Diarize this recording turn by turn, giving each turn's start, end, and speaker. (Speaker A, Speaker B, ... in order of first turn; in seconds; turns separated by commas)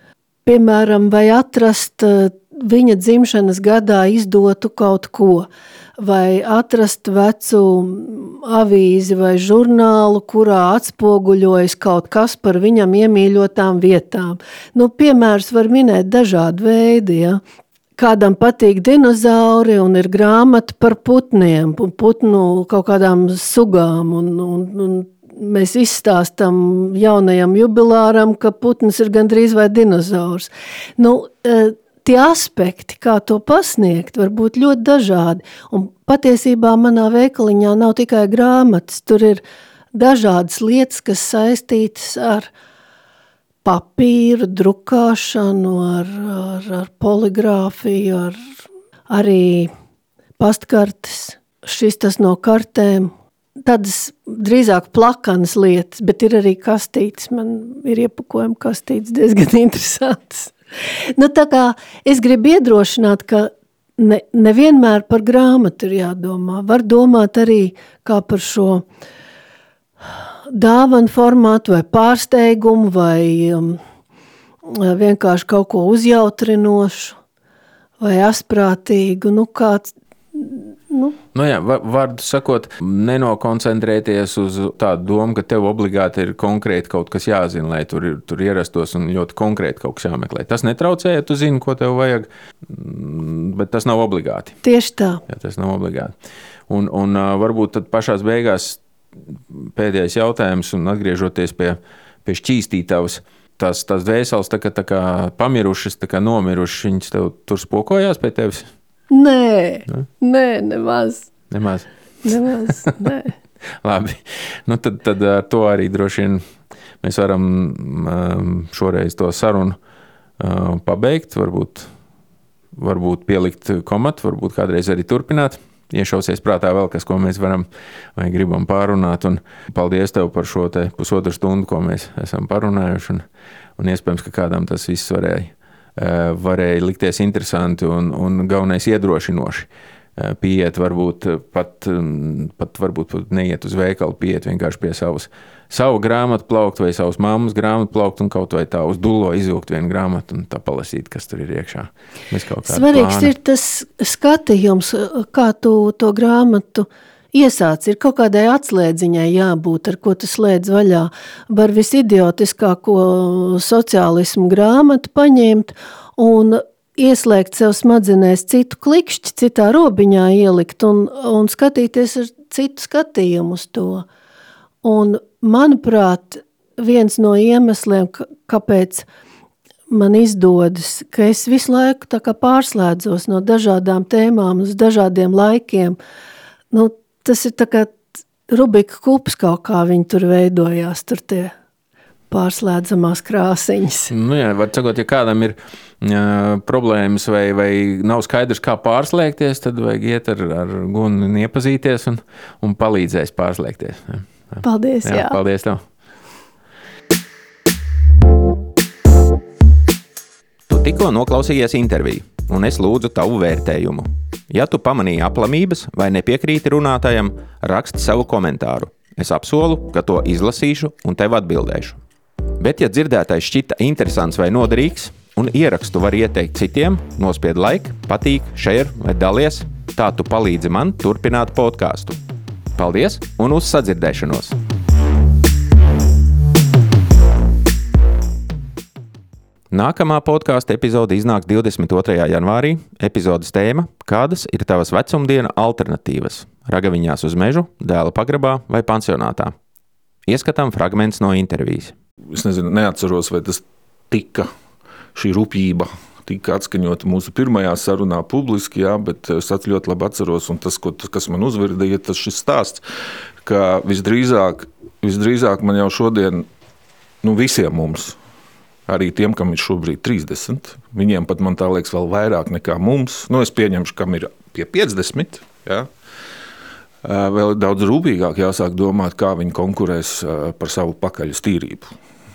Speaker A: 0.5-17.4, Speaker A: 18.0-42.5, Speaker A: 43.6-48.4, Speaker A: 49.1-49.7, Speaker A: 50.4-68.8, Speaker A: 70.5-73.8, Speaker A: 74.6-77.2, Speaker A: 78.0-81.2, Speaker B: 81.3-94.6, Speaker A: 94.6-95.2, Speaker B: 95.3-96.1, Speaker B: 96.7-98.8, Speaker B: 99.5-108.7, Speaker A: 109.1-111.3, Speaker B: 111.5-111.9, Speaker A: 112.2-113.3, Speaker B: 113.8-116.4, Speaker B: 117.0-119.8, Speaker B: 120.4-121.9, Speaker B: 122.8-133.2, Speaker B: 133.8-153.3, Speaker A: 152.7-174.1, Speaker A: 174.8-179.1, Speaker A: 179.9-186.0, Speaker A: 186.7-191.6, Speaker A: 192.3-194.1, Speaker B: 194.1-205.8, Speaker A: 204.6-205.4, Speaker B: 210.7-222.0, Speaker B: 222.6-232.2, Speaker B: 232.8-234.6, Speaker B: 239.7-249.5, Speaker B: 250.3-251.9, Speaker C: 252.3-254.5, Speaker C: 255.2-262.8, Speaker C: 263.4-266.5, Speaker C: 267.2-268.2, Speaker C: 268.9-275.9, Speaker C: 277.0-281.9